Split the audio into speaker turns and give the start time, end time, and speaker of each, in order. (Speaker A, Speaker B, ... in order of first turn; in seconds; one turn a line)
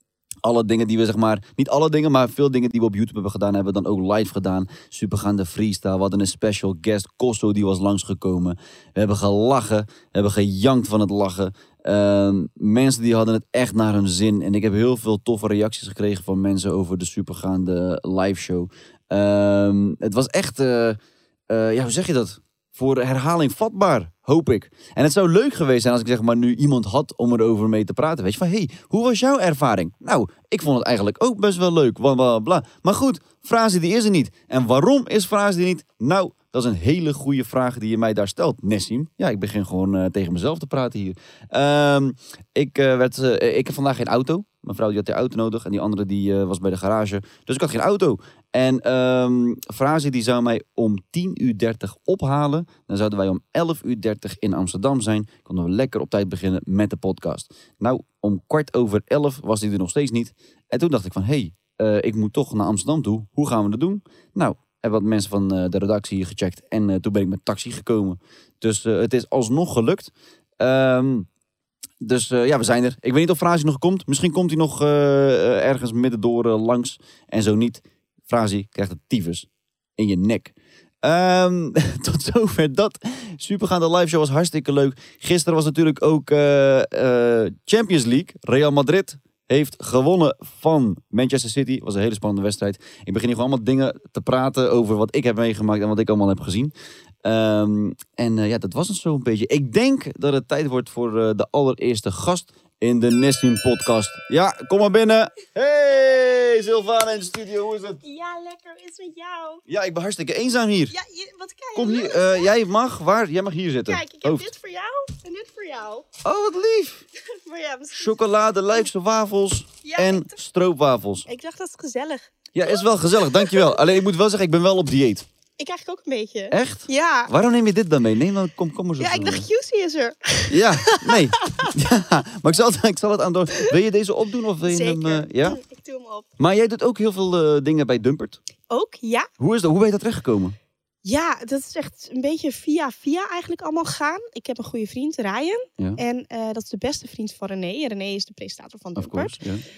Speaker A: 0.4-71.3
Speaker A: 72.0-108.0
Speaker B: 108.0-109.6
Speaker A: 109.7-110.9
Speaker B: 110.9-112.5
Speaker A: 111.7-114.5
Speaker B: 113.8-116.1
Speaker A: 116.2-117.0
Speaker B: 117.3-118.1
Speaker A: 117.9-121.3
Speaker B: 119.8-120.3
Speaker B: 121.3-122.8
Speaker A: 122.5-125.2
Speaker B: 125.6-127.3
Speaker A: 126.5-129.4
Speaker B: 129.0-131.7
Speaker A: 130.5-135.6
Speaker B: 134.7-136.3
Speaker A: 136.4-138.4
Speaker B: 138.7-139.3
Speaker A: 139.4-140.6
Speaker B: 141.0-149.3
Speaker A: 148.9-149.6